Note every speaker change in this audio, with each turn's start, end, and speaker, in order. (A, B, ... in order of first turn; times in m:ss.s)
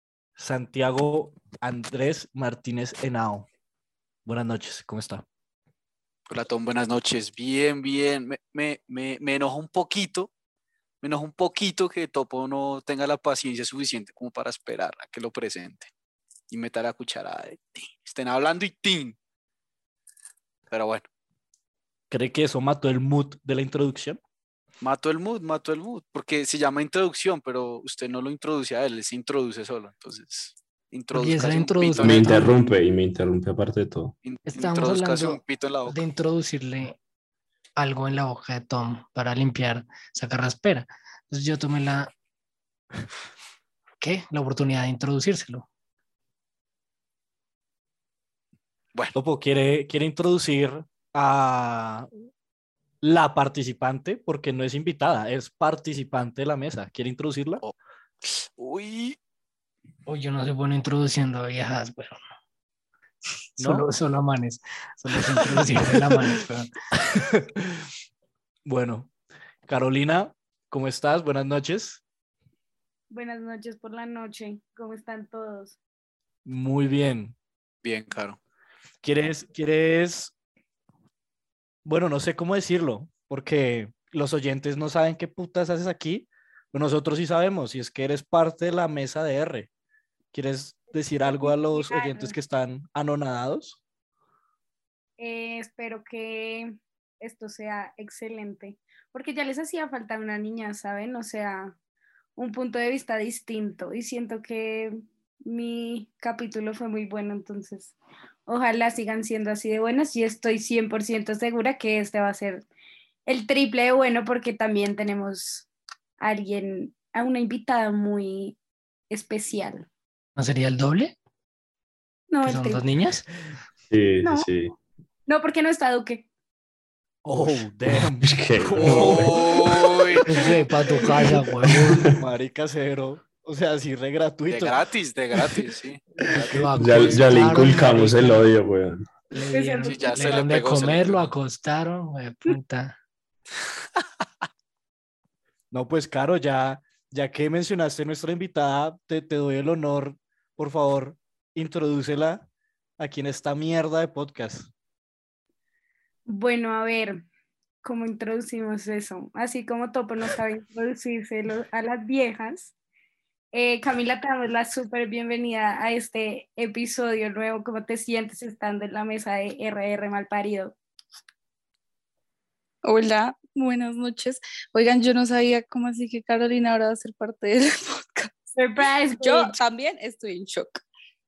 0:00.4-0:03.5 A
0:04.2-0:05.2 A
0:06.3-0:10.3 B
0:11.0-0:15.9 B
0:16.5-0:19.2 B
0:20.7-0:21.1 B
0:22.1-0:24.2 A
0:24.8-0:32.3 B
0:31.1-0:32.5 C
0:32.0-0:34.1 D
0:34.2-0:36.0 B
0:34.4-0:37.0 C
0:37.8-0:42.1 C
0:44.0-0:45.7 C
0:49.1-0:52.1 A
0:53.0-0:57.6 A
0:57.6-0:59.2 B
1:00.0-1:02.1 C
1:03.6-1:06.7 C
1:03.6-1:03.9 A
1:05.8-1:06.1 A
1:07.0-1:07.8 A
1:08.6-1:09.1 A
1:09.7-1:12.0 A
1:13.1-1:15.8 E
1:16.4-1:17.3 A
1:17.8-1:18.4 B
1:19.0-1:20.3 A
1:21.8-1:29.7 A
1:30.3-1:33.8 A
1:31.2-1:32.4 E
1:35.2-1:41.8 E
1:42.4-1:47.9 E
1:48.5-1:52.7 E
1:53.2-1:55.7 E
1:56.2-1:58.6 E
1:59.1-1:59.9 E
2:00.4-2:01.1 C
2:02.3-2:02.8 E
2:02.4-2:03.3 C
2:03.9-2:04.7 D
2:05.3-2:06.2 E
2:07.2-2:10.5 A
2:08.2-2:09.5 D
2:08.8-2:10.4 B
2:10.3-2:12.0 C
2:11.6-2:14.8 A
2:11.8-2:12.2 D
2:14.5-2:17.2 B
2:16.2-2:16.7 A
2:16.5-2:18.4 C
2:16.8-2:19.1 D
2:19.3-2:23.0 C
2:19.4-2:20.4 E
2:19.8-2:21.2 B
2:25.7-2:32.4 A
2:33.0-2:34.7 A
2:36.3-2:37.2 E
2:37.8-2:42.7 E
2:43.5-2:50.7 E
2:52.8-2:58.3 F
2:58.5-2:59.6 E
2:59.1-3:00.8 F